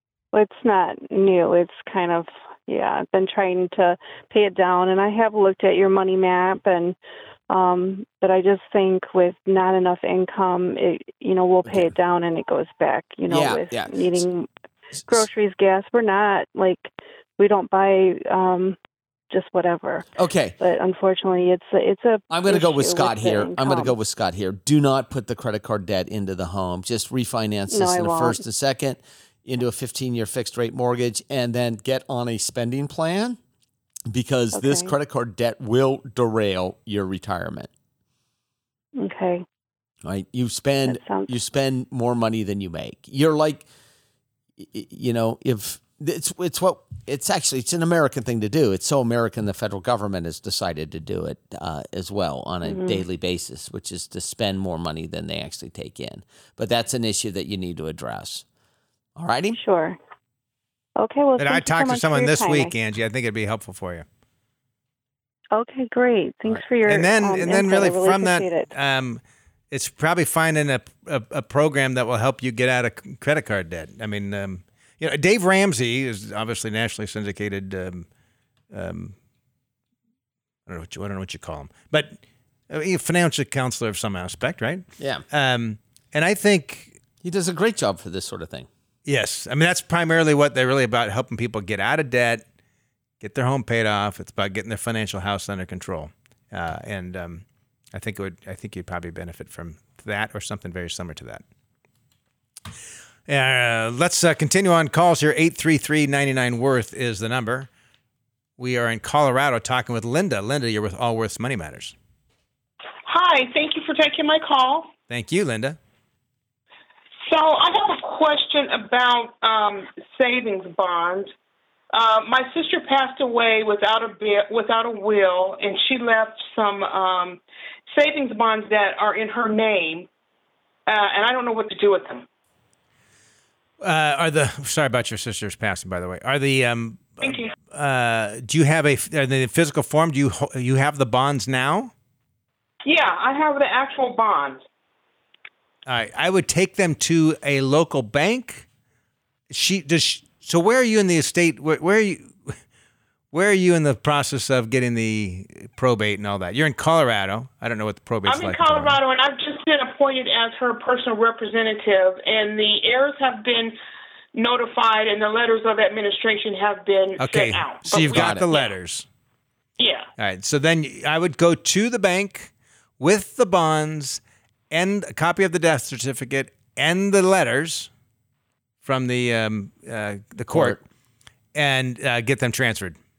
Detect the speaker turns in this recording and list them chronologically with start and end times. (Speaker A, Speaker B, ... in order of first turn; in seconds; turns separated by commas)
Speaker A: 0.3-7.0, Speaker A: 7.5-14.5, Speaker B: 13.3-14.2, Speaker A: 15.1-18.8, Speaker A: 19.3-20.1, Speaker B: 20.1-20.6, Speaker A: 20.6-23.9, Speaker B: 22.3-33.4, Speaker A: 27.7-28.4, Speaker B: 34.1-37.7, Speaker A: 34.5-35.0, Speaker A: 39.0-39.5, Speaker B: 40.0-43.7, Speaker A: 40.9-41.3, Speaker B: 44.6-58.5, Speaker A: 52.7-53.0, Speaker B: 59.2-59.6, Speaker A: 59.5-60.0, Speaker A: 61.0-62.7, Speaker C: 61.4-64.1, Speaker A: 65.5-68.7, Speaker C: 66.8-78.1, Speaker C: 78.7-79.2, Speaker C: 80.7-82.2, Speaker C: 82.7-87.0, Speaker B: 85.0-85.2, Speaker B: 87.2-88.7, Speaker C: 89.1-92.4, Speaker C: 93.2-101.4, Speaker C: 103.3-107.7, Speaker C: 108.6-111.9, Speaker D: 113.1-114.9, Speaker C: 115.1-115.8, Speaker D: 117.3-121.3, Speaker D: 121.9-130.1, Speaker D: 130.9-132.3, Speaker C: 133.8-141.9, Speaker D: 137.2-137.5, Speaker D: 142.8-144.6, Speaker C: 145.9-148.7, Speaker C: 149.5-152.3, Speaker C: 153.3-159.0, Speaker D: 158.3-163.8, Speaker D: 164.3-168.7, Speaker C: 167.2-169.1, Speaker B: 168.0-168.5, Speaker D: 169.8-170.1, Speaker C: 170.2-177.9, Speaker C: 178.8-180.8, Speaker B: 180.5-180.8, Speaker C: 181.6-183.0